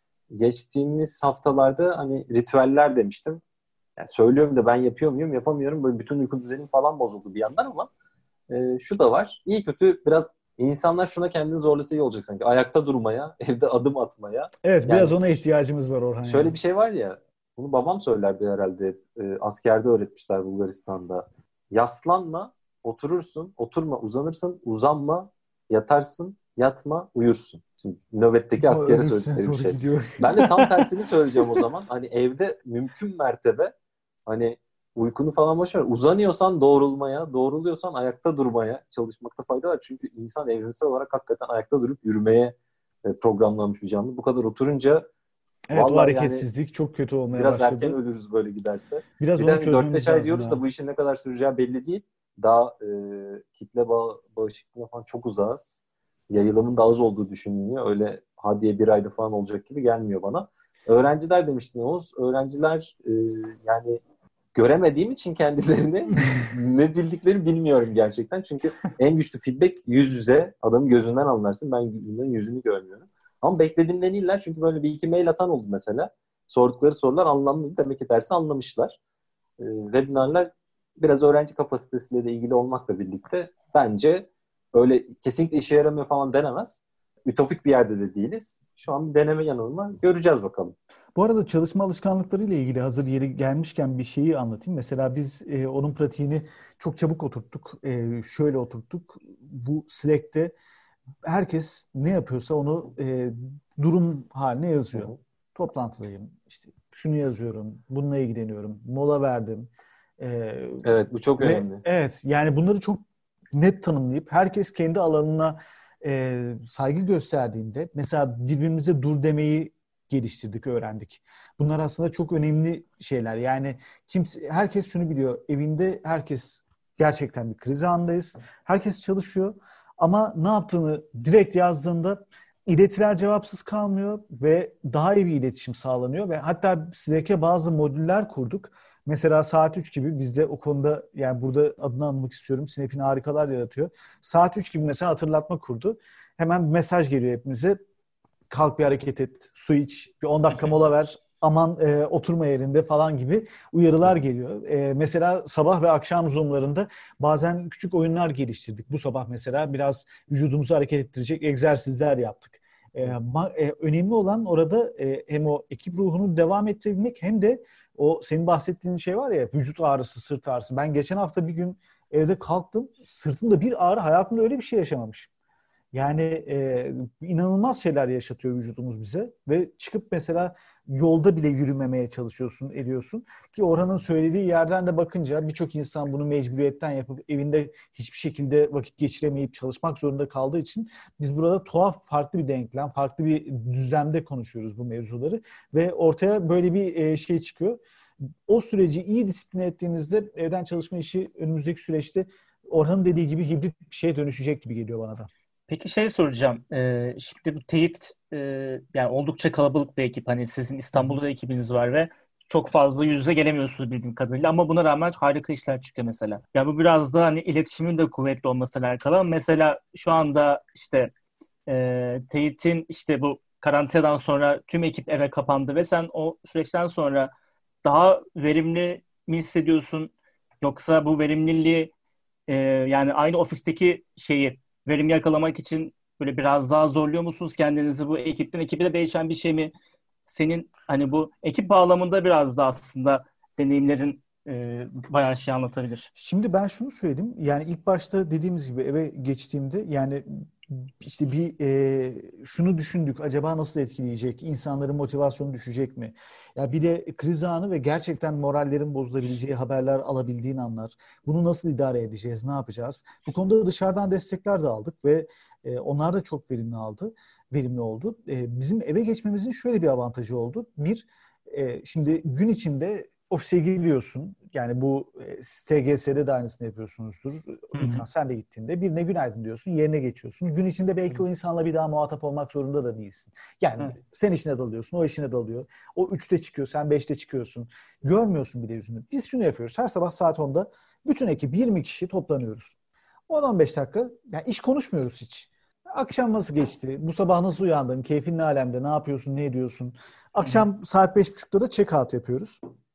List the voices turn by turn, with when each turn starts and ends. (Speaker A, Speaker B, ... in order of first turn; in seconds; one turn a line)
Speaker A: 0.3-3.4
Speaker A: 4.0-7.9
Speaker A: 8.5-15.4
Speaker B: 14.6-16.6
Speaker A: 16.2-33.7
Speaker B: 28.6-30.7
Speaker A: 34.3-45.1
Speaker B: 45.7-48.0
Speaker A: 45.7-46.5
Speaker A: 47.3-64.0
Speaker B: 49.2-50.6
Speaker A: 64.5-79.0
Speaker A: 79.6-90.8
Speaker B: 91.2-100.5
Speaker B: 101.2-147.8
Speaker A: 110.8-111.8
Speaker B: 148.5-175.3
Speaker B: 175.9-197.8
Speaker B: 198.5-205.3
Speaker C: 205.7-221.1
Speaker C: 221.7-227.3
Speaker C: 227.8-231.9
Speaker C: 232.5-239.7
Speaker C: 240.3-246.1
Speaker B: 246.2-292.8
Speaker C: 277.7-278.1
Speaker B: 293.3-302.6